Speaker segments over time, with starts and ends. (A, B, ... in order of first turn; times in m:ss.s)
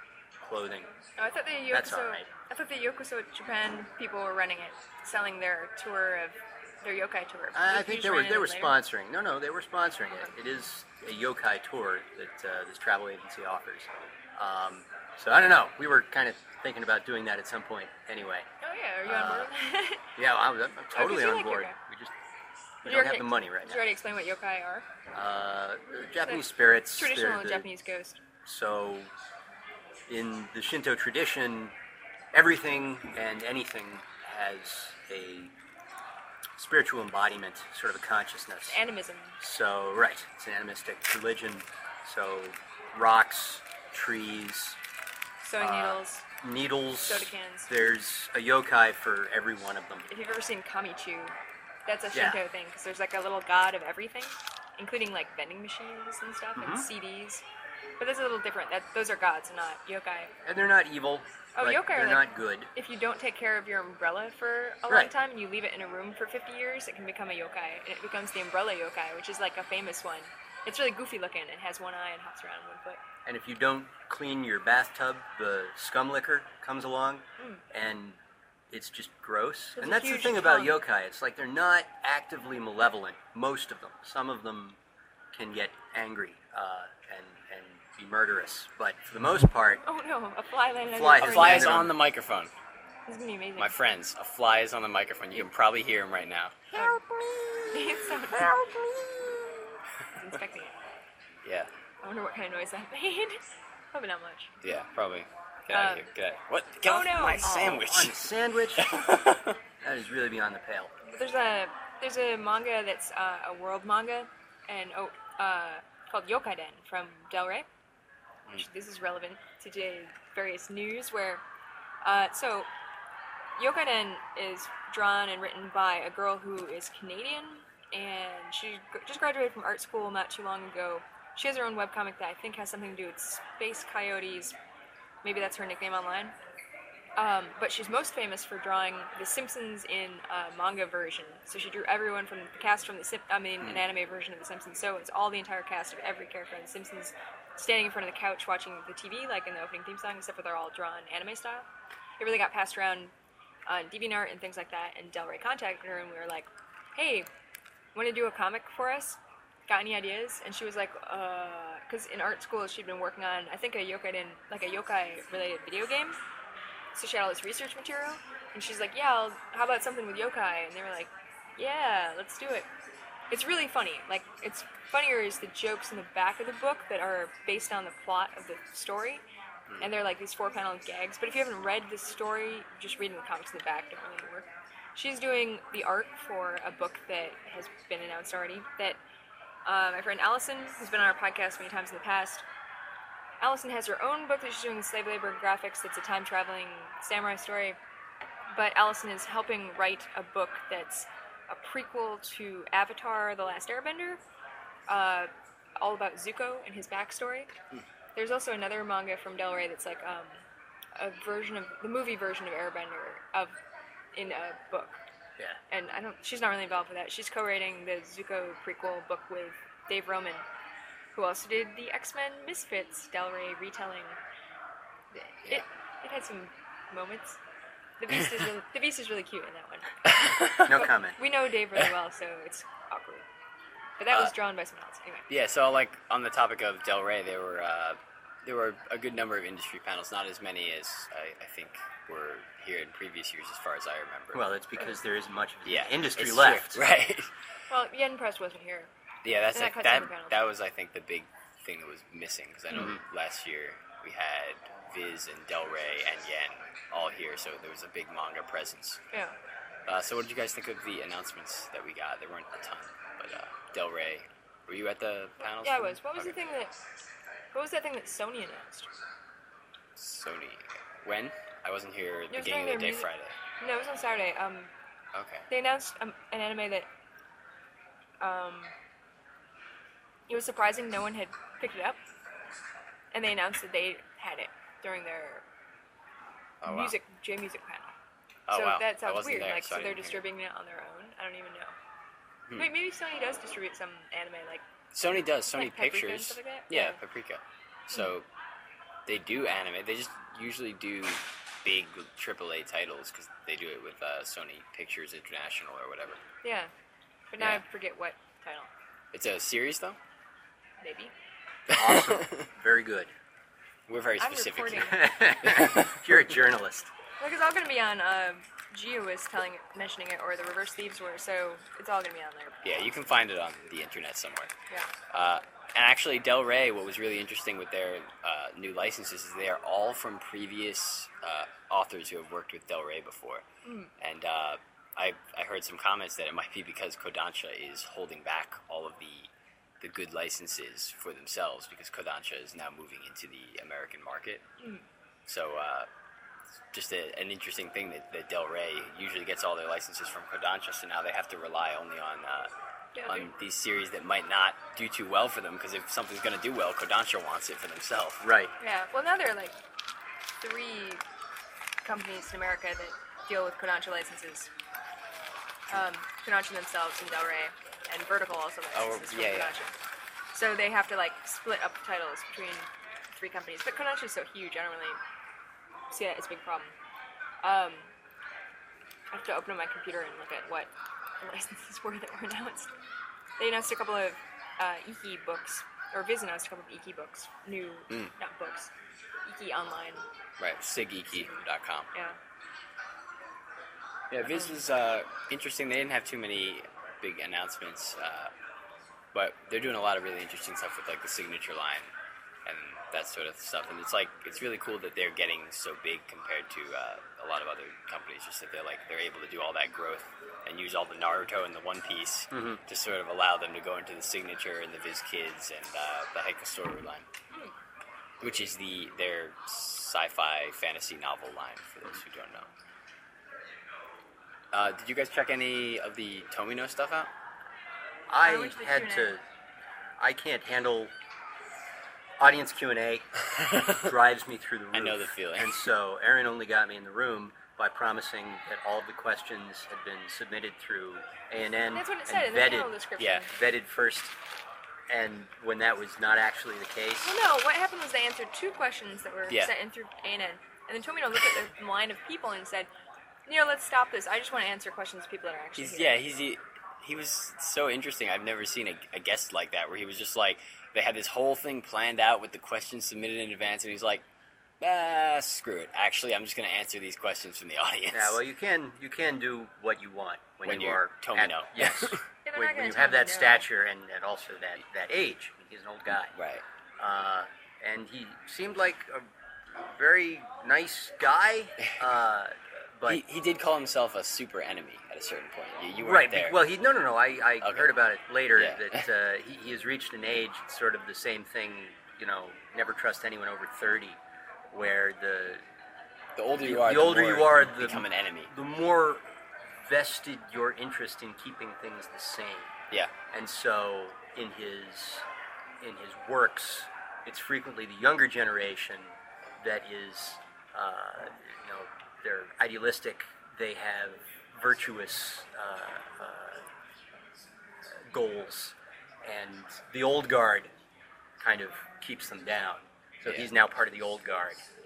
0:00.4-0:00.9 A
0:01.2-0:08.8 B
0:01.7-0:02.3 A
0:07.5-0:18.5 A
0:18.6-0:20.1 B
0:19.0-0:19.5 A
0:20.2-0:22.1 A
0:20.9-0:21.8 B
0:22.8-0:23.8 A
0:22.8-0:24.8 B
0:25.1-0:27.7 A
0:26.2-0:28.2 B
0:28.4-0:29.1 A
0:30.1-0:31.7 A
0:32.3-0:35.5 A
0:36.6-0:38.8 A
0:38.6-0:39.4 B
0:39.4-0:44.8 A
0:45.4-0:46.2 B
0:45.6-0:50.1 A
0:47.0-0:47.7 B
0:50.1-0:51.3 B
0:51.8-0:57.4 B
0:52.1-0:52.4 A
0:56.6-0:56.9 A
0:58.0-1:00.3 B
1:00.4-1:02.7 A
1:01.6-1:13.0 B
1:13.2-1:18.2 A
1:17.4-1:17.6 B
1:18.7-1:24.8 A
1:19.8-1:20.8 B
1:25.3-1:29.8 A
1:29.8-1:31.8 B
1:30.9-1:32.0 A
1:31.2-1:32.5 C
1:33.1-1:33.7 B
1:33.6-1:37.7 C
1:36.7-1:37.0 B
1:37.7-1:38.6 B
1:38.5-1:39.4 C
1:40.1-1:40.8 B
1:41.4-1:41.7 C
1:42.0-1:44.5 B
1:44.6-1:49.5 C
1:45.7-1:46.1 B
1:46.8-1:47.5 B
1:47.4-1:49.0 A
1:49.8-1:50.9 A
1:51.0-1:57.7 B
1:58.5-2:01.4 B
2:02.0-2:02.7 B
2:03.6-2:14.6 B
2:15.2-2:16.3 B
2:17.2-2:31.6 B
2:32.2-2:33.1 B
2:33.7-2:37.3 B
2:37.9-2:46.2 B
2:46.9-2:52.7 B
2:53.3-2:59.2 B
2:59.8-3:09.0 B
3:09.6-3:12.4 B
3:13.4-3:17.8 B
3:18.5-3:24.2 B
3:24.9-3:27.6 B
3:28.1-3:30.4 B
3:31.0-3:33.6 B
3:34.1-3:35.0 B
3:35.7-3:40.4 B
3:41.1-3:44.2 B
3:45.1-3:47.4 B
3:48.0-3:53.2 B
3:50.1-3:50.8 C
3:50.6-3:51.2 A
3:54.0-3:55.3 B
3:55.3-4:04.5 C
4:04.3-4:06.8 A
4:05.6-4:07.3 C
4:07.7-4:08.9 B
4:09.2-4:19.0 C
4:09.5-4:10.5 B
4:19.8-4:26.5 C
4:25.4-4:26.7 B
4:27.5-4:28.9 B
4:30.0-4:33.4 C
4:32.3-4:33.1 B
4:33.6-4:34.7 B
4:35.1-4:35.5 C
4:35.5-4:36.9 B
4:38.2-4:38.7 B
4:40.3-4:42.0 B
4:43.1-4:45.4 B
4:46.6-4:46.9 C
4:46.6-4:48.0 B
4:48.5-4:50.2 C
4:48.5-4:51.7 B
4:52.6-4:57.0 B
4:54.9-4:58.2 C
4:59.0-5:06.2 C
5:06.4-5:06.7 B
5:07.3-5:08.7 B
5:09.1-5:10.0 C
5:10.8-5:11.1 B
5:11.7-5:12.5 C
5:11.7-5:13.1 A
5:13.9-5:16.0 C
5:14.2-5:15.1 B
5:14.9-5:16.9 A
5:17.2-5:22.7 B
5:22.6-5:24.5 C
5:25.1-5:33.4 C
5:33.6-5:33.9 B
5:34.0-5:39.3 C
5:39.8-5:44.4 C
5:44.6-5:44.8 B
5:45.3-5:45.9 C
5:46.7-5:52.5 C
5:52.9-5:53.3 B
5:53.0-5:58.2 C
5:58.2-5:58.5 A
5:58.6-5:59.5 B
6:00.4-6:01.0 B
6:01.8-6:04.5 B
6:05.7-6:09.7 B
6:08.7-6:09.6 C
6:10.3-6:15.0 B
6:15.9-6:16.7 B
6:17.4-6:17.9 B
6:19.1-6:22.7 B
6:23.4-6:28.7 B
6:29.2-6:30.0 B
6:30.4-6:31.9 C
6:31.1-6:31.4 B
6:34.1-6:38.3 C
6:34.3-6:34.5 B
6:39.1-6:41.9 C
6:42.4-6:57.0 C
6:52.3-6:52.6 A
6:58.2-7:02.5 C
7:04.5-7:07.1 C
7:08.1-7:09.2 A
7:08.2-7:09.1 B
7:10.0-7:10.9 A
7:12.2-7:13.0 A
7:13.4-7:13.8 C
7:13.6-7:22.8 A
7:14.7-7:15.6 C
7:21.7-7:23.3 B
7:23.0-7:23.2 C
7:23.3-7:24.1 A
7:24.9-7:27.1 A
7:27.0-7:32.7 B
7:33.2-7:36.0 B
7:35.6-7:44.0 C
7:44.6-7:48.2 C
7:47.9-7:56.1 A
7:50.4-7:52.0 C
7:52.2-7:53.4 B
7:56.1-7:56.4 C
7:56.8-8:03.0 A
8:02.9-8:06.4 C
8:05.8-8:14.0 A
8:07.4-8:07.7 C
8:08.4-8:08.8 C
8:14.5-8:15.4 A
8:16.2-8:18.3 C
8:16.4-8:19.0 A
8:19.6-8:22.6 A
8:23.1-8:25.0 A
8:25.6-8:36.4 A
8:37.6-8:40.5 A
8:41.2-8:44.4 A